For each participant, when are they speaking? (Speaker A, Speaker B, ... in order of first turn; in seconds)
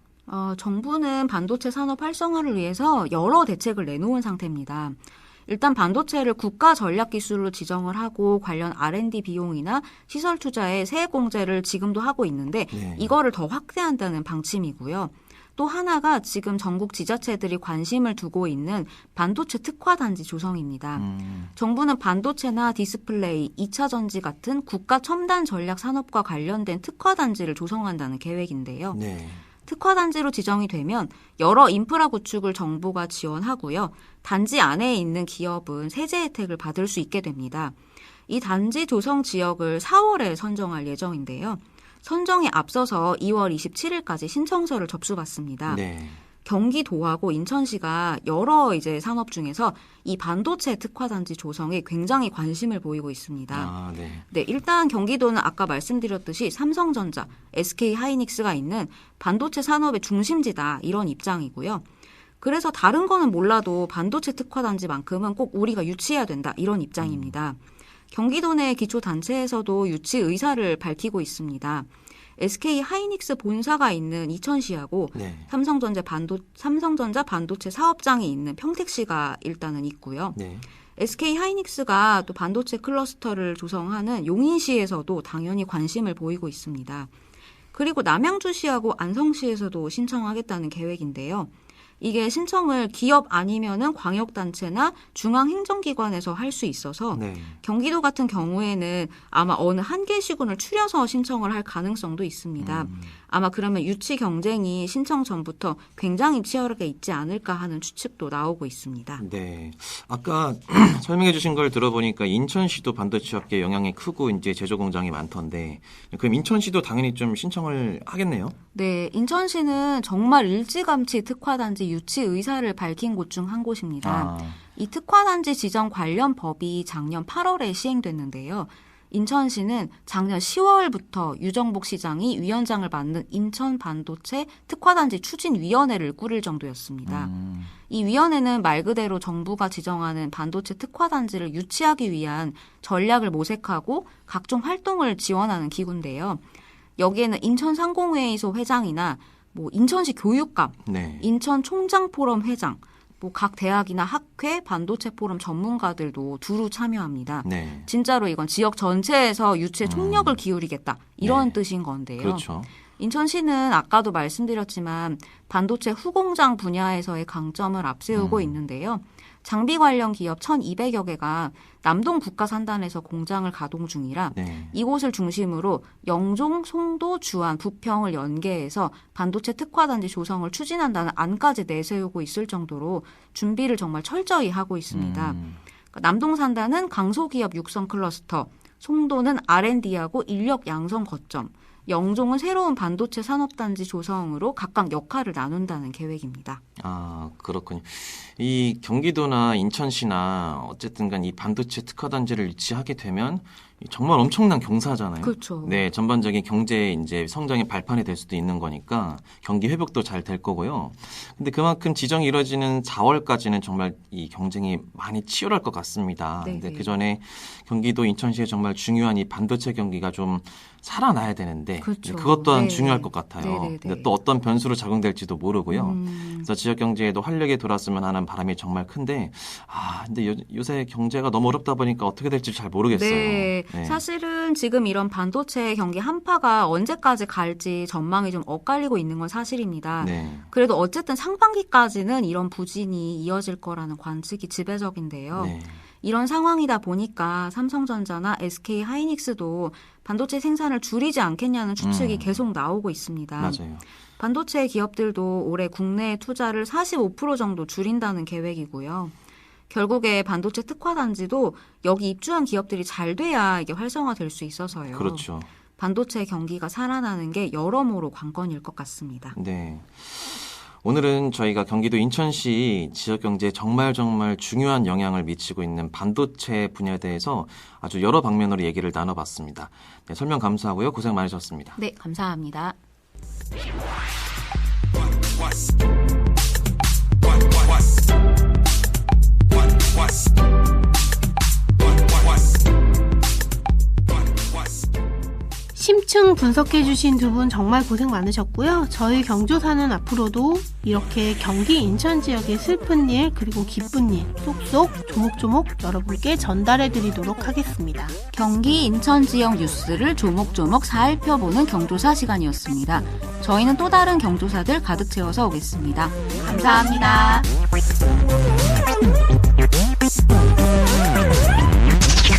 Speaker A: 0.3-29.0, 29.6-37.8, 38.3-45.8, 46.4-53.7, 54.3-61.8, 62.4-67.6, 68.1-80.4, 81.0-87.1, 87.7-109.2, 118.7-137.3, 137.9-146.4, 147.0-185.4, 185.9-196.6, 205.2-205.8, 216.4-216.9, 221.8-224.1, 225.7-226.5, 232.9-253.6, 254.2-259.1, 259.7-269.4, 281.8-282.8, 308.3-317.5
Speaker B: 12.7-13.1, 20.9-21.5, 28.9-29.4, 45.6-46.2, 53.5-54.2, 67.0-67.3, 75.1-75.5, 80.3-80.7, 97.1-97.6, 102.6-103.1, 109.2-118.5, 124.0-124.6, 137.1-137.7, 150.8-151.3, 157.4-157.9, 159.8-160.4, 161.2-161.6, 162.2-162.7, 168.1-168.6, 174.3-174.7, 184.9-185.6, 196.8-234.0, 240.0-240.5, 245.3-245.8, 251.8-252.4, 253.4-253.8, 264.9-265.5, 269.3-281.8
Speaker C: 295.7-308.1